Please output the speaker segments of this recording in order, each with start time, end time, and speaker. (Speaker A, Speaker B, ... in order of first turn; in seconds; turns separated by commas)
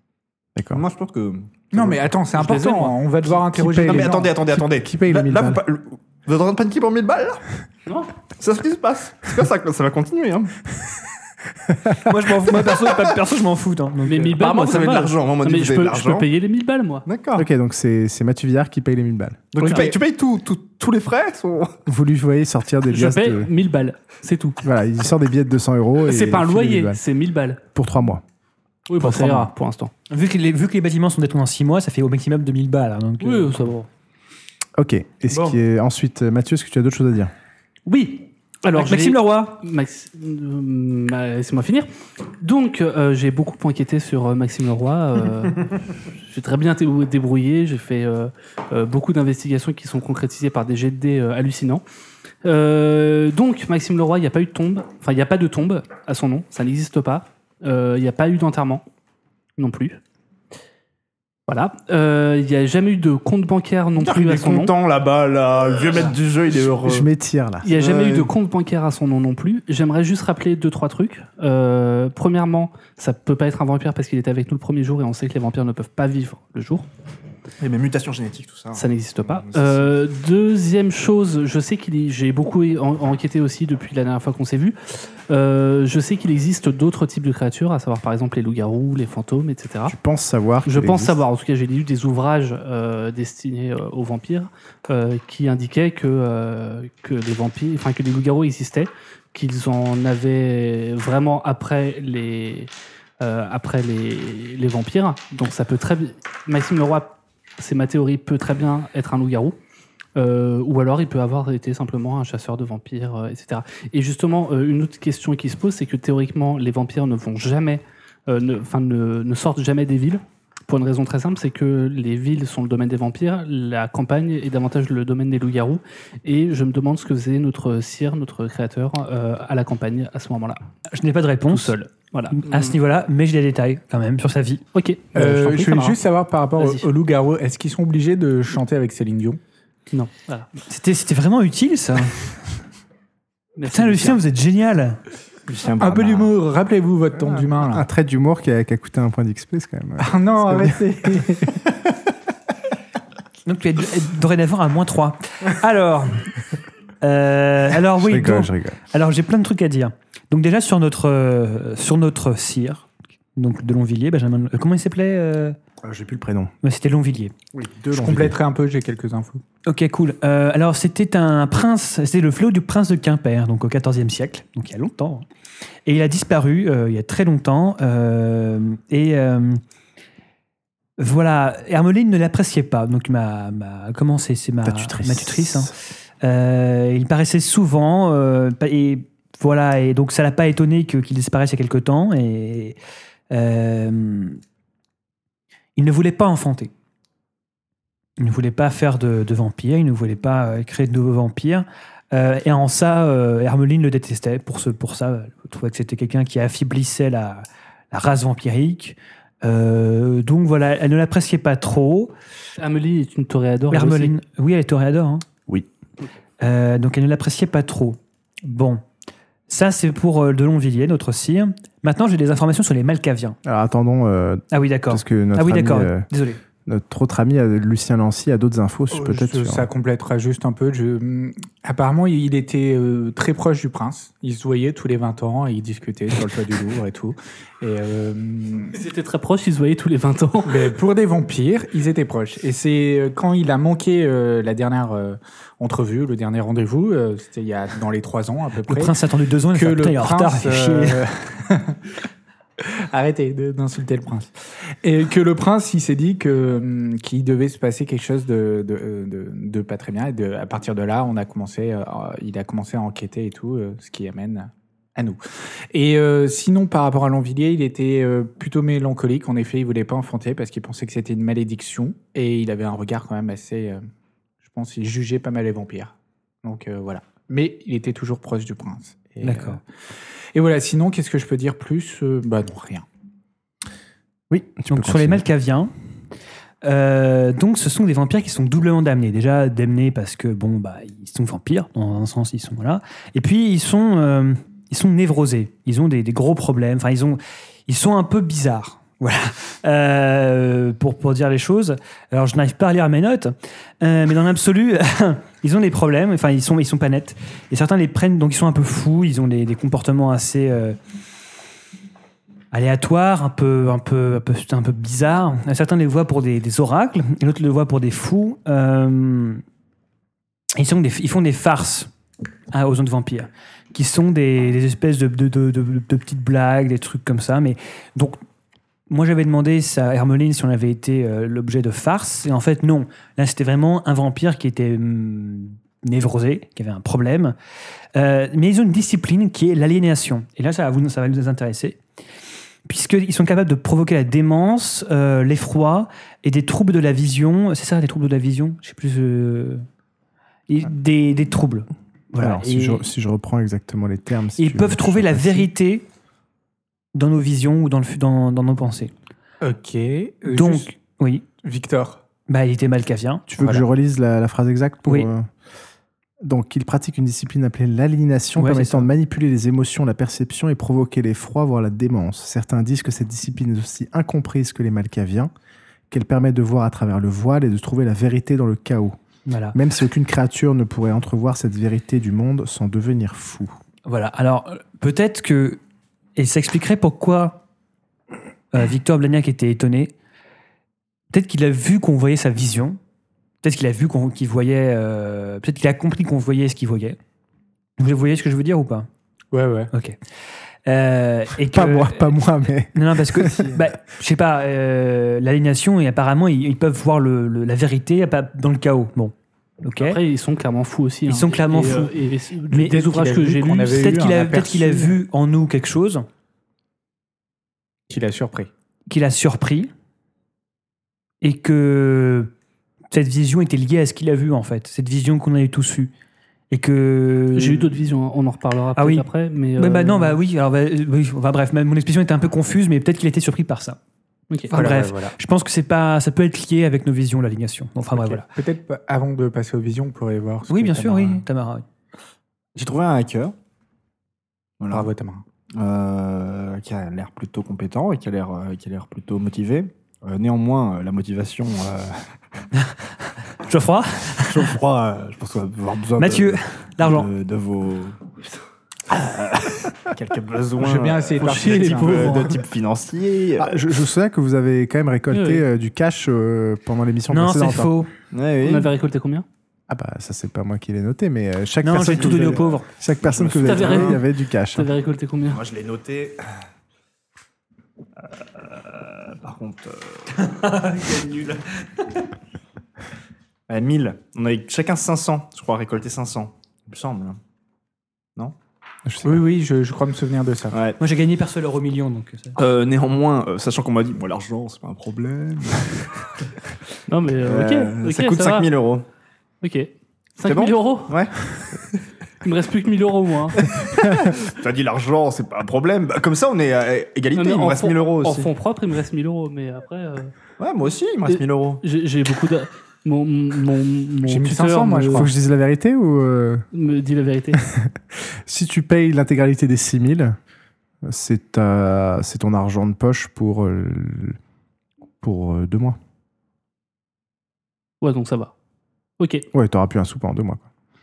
Speaker A: 0.6-0.8, Speaker B: 0.7-2.1, Speaker C: 1.7-4.3, Speaker D: 2.4-3.0, Speaker A: 3.5-5.6, Speaker B: 3.8-7.4, Speaker D: 7.8-8.1, Speaker B: 8.4-10.6, Speaker E: 12.0-14.4, Speaker B: 12.5-13.1, Speaker D: 14.1-17.0, Speaker B: 14.4-16.3, Speaker B: 17.0-17.5, Speaker A: 17.3-19.5, Speaker B: 19.5-21.8, Speaker D: 19.6-20.0, Speaker A: 21.9-23.5, Speaker D: 22.9-24.6, Speaker A: 24.6-27.0, Speaker D: 26.0-27.6, Speaker A: 27.7-28.2, Speaker D: 28.9-29.9, Speaker E: 30.1-33.5, Speaker D: 33.2-33.9, Speaker A: 34.8-37.3, Speaker E: 35.3-35.6, Speaker D: 37.9-41.9, Speaker E: 38.7-39.6, Speaker D: 42.4-51.8, Speaker D: 52.4-58.8, Speaker D: 59.6-60.0, Speaker D: 61.5-64.7, Speaker B: 64.0-67.1, Speaker A: 66.8-67.7, Speaker D: 67.6-76.9, Speaker B: 67.7-68.3, Speaker B: 77.6-79.9, Speaker D: 78.7-89.9, Speaker A: 89.9-91.2, Speaker D: 90.7-109.5, Speaker D: 110.1-130.6, Speaker E: 130.9-131.8, Speaker D: 131.5-132.8, Speaker E: 132.3-134.6, Speaker D: 134.7-136.0, Speaker C: 135.1-139.4, Speaker D: 136.6-136.8, Speaker D: 139.9-140.5, Speaker E: 140.7-142.3, Speaker D: 143.6-144.2, Speaker E: 143.7-145.0, Speaker B: 145.5-146.3, Speaker C: 145.8-147.8, Speaker A: 147.4-151.2, Speaker C: 150.0-151.7, Speaker E: 153.4-156.3, Speaker E: 157.0-165.6, Speaker A: 158.0-158.8, Speaker A: 165.8-166.5, Speaker E: 166.6-167.3, Speaker A: 167.5-168.4, Speaker C: 167.9-169.4, Speaker E: 169.6-175.2, Speaker E: 175.8-179.6, Speaker E: 181.0-192.8, Speaker A: 184.6-185.7, Speaker E: 193.3-194.4, Speaker E: 195.8-196.7, Speaker E: 198.2-212.1, Speaker D: 212.6-214.1, Speaker E: 213.7-215.2, Speaker E: 216.4-218.8, Speaker E: 219.5-223.4, Speaker A: 223.4-226.1, Speaker E: 224.5-226.4, Speaker A: 226.6-229.7, Speaker C: 228.9-238.7, Speaker D: 238.7-240.7, Speaker C: 240.4-249.0, Speaker E: 248.7-251.0, Speaker C: 249.5-252.0, Speaker C: 252.6-254.3, Speaker C: 254.8-265.2, Speaker C: 265.7-273.8, Speaker C: 274.4-279.6, Speaker E: 279.2-279.6, Speaker C: 280.3-282.8, Speaker A: 284.3-285.2, Speaker E: 284.7-285.7, Speaker E: 286.6-310.8, Speaker E: 312.5-319.4, Speaker E: 320.5-321.9, Speaker E: 322.5-328.2, Speaker E: 328.9-337.3, Speaker E: 337.9-341.8, Speaker E: 342.6-349.6, Speaker E: 350.5-352.8, Speaker A: 352.2-355.5, Speaker E: 354.4-355.8, Speaker E: 356.9-358.9, Speaker C: 359.4-360.7, Speaker E: 360.3-361.2, Speaker C: 361.4-362.0, Speaker E: 362.3-363.2, Speaker A: 363.3-365.3, Speaker C: 363.4-363.6, Speaker A: 366.2-375.3, Speaker E: 368.4-368.9, Speaker A: 375.9-379.0, Speaker E: 379.2-379.6, Speaker A: 379.5-383.5, Speaker E: 383.8-385.6, Speaker E: 386.1-387.4, Speaker E: 388.5-389.9, Speaker E: 391.1-392.8, Speaker E: 393.4-397.0, Speaker E: 397.8-398.9, Speaker C: 399.3-399.7, Speaker E: 399.7-400.0, Speaker E: 400.6-402.1, Speaker A: 401.5-403.6, Speaker E: 402.7-410.0, Speaker D: 409.8-413.9, Speaker E: 411.1-411.9, Speaker C: 412.5-414.9, Speaker E: 413.7-416.1, Speaker C: 417.9-418.5, Speaker E: 418.9-419.7, Speaker E: 421.2-422.3, Speaker E: 422.9-425.9, Speaker E: 426.5-427.7, Speaker D: 427.3-430.2, Speaker E: 428.8-433.8, Speaker E: 434.5-438.2, Speaker C: 434.5-435.1, Speaker C: 437.9-441.2, Speaker E: 440.5-441.6, Speaker B: 442.5-443.3, Speaker B: 444.6-444.9, Speaker C: 444.7-445.2, Speaker B: 445.6-452.1, Speaker E: 453.4-454.6, Speaker B: 454.2-458.4, Speaker E: 456.0-457.1, Speaker B: 458.9-463.6, Speaker C: 460.6-462.3, Speaker D: 461.2-462.4, Speaker A: 463.4-467.8, Speaker D: 465.1-465.4, Speaker E: 467.1-467.9, Speaker B: 468.1-468.7, Speaker D: 468.4-469.2, Speaker A: 469.7-474.7, Speaker E: 471.6-472.7, Speaker B: 471.9-474.0, Speaker D: 473.4-475.4, Speaker B: 475.3-476.2, Speaker B: 478.0-480.3, Speaker E: 480.1-481.6, Speaker B: 483.5-487.2, Speaker A: 488.9-489.2, Speaker C: 489.0-490.6, Speaker B: 490.5-490.8, Speaker E: 490.8-492.4, Speaker B: 492.4-495.9, Speaker D: 496.9-498.5, Speaker B: 497.2-498.9, Speaker D: 499.4-500.9, Speaker B: 500.2-501.8, Speaker D: 502.2-503.5, Speaker B: 503.3-508.3, Speaker D: 507.1-510.1, Speaker B: 510.4-511.6, Speaker D: 511.1-515.1, Speaker C: 514.0-515.1, Speaker A: 514.9-516.4, Speaker D: 516.5-517.4, Speaker A: 517.4-520.2, Speaker A: 520.8-524.2, Speaker A: 525.0-525.8, Speaker D: 527.8-528.3, Speaker D: 529.0-529.2, Speaker A: 529.3-530.4